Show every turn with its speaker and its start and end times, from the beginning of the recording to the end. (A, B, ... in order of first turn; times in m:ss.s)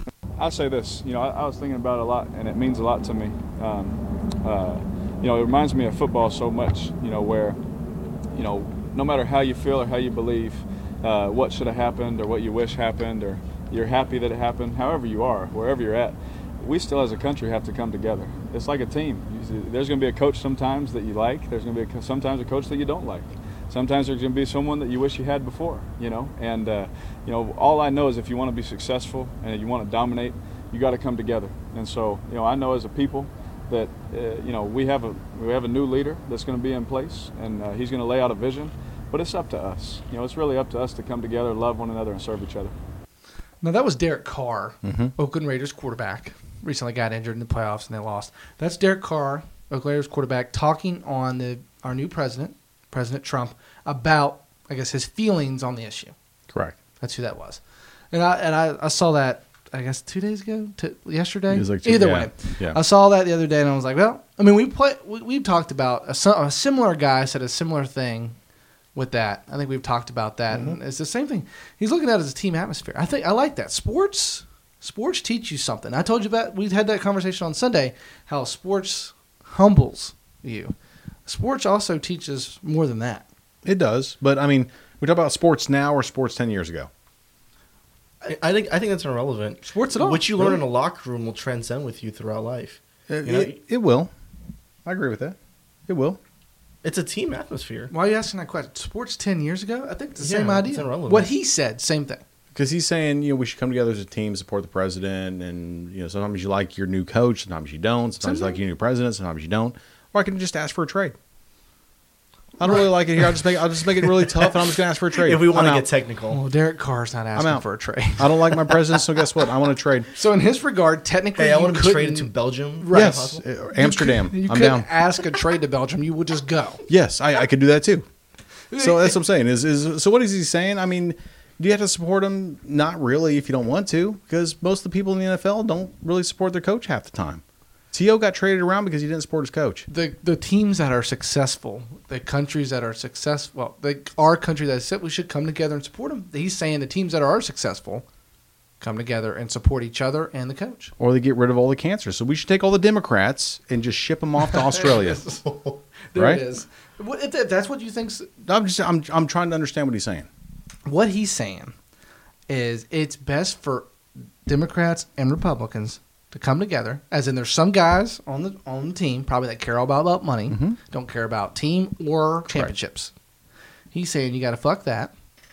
0:00.4-0:07.6 A
0:08.3-0:42.7 A
0:43.6-0:56.1 B
0:44.8-0:45.1 C
0:56.5-0:56.8 C
0:57.0-0:57.6 B
0:58.1-1:08.4 B
1:01.5-1:02.8 C
1:08.9-1:20.7 B
1:10.5-1:10.8 C
1:21.2-1:23.2 B
1:23.6-1:26.9 C
1:28.2-1:33.6 D
1:29.6-1:30.3 B
1:33.1-1:34.1 C
1:34.8-1:35.4 C
1:35.9-1:36.2 C
1:36.8-1:37.9 D
1:37.9-1:42.2 B
1:40.2-1:41.3 D
1:42.5-1:51.1 C
1:48.2-1:48.6 B
1:52.6-1:55.9 C
1:55.1-1:56.4 D
1:56.3-1:59.2 B
1:57.4-1:57.6 C
1:58.1-2:00.1 C
2:00.1-2:06.8 B
2:01.4-2:03.4 D
2:02.9-2:04.9 C
2:06.9-2:08.0 C
2:08.7-2:09.2 B
2:08.8-2:19.8 C
2:19.9-2:28.0 B
2:28.8-2:30.9 B
2:31.0-2:35.3 C
2:34.4-2:38.3 B
2:36.1-2:36.4 C
2:38.4-2:40.3 C
2:40.8-2:41.7 B
2:42.5-2:43.9 B
2:44.4-2:53.1 B
2:50.5-2:50.8 C
2:53.9-2:55.1 B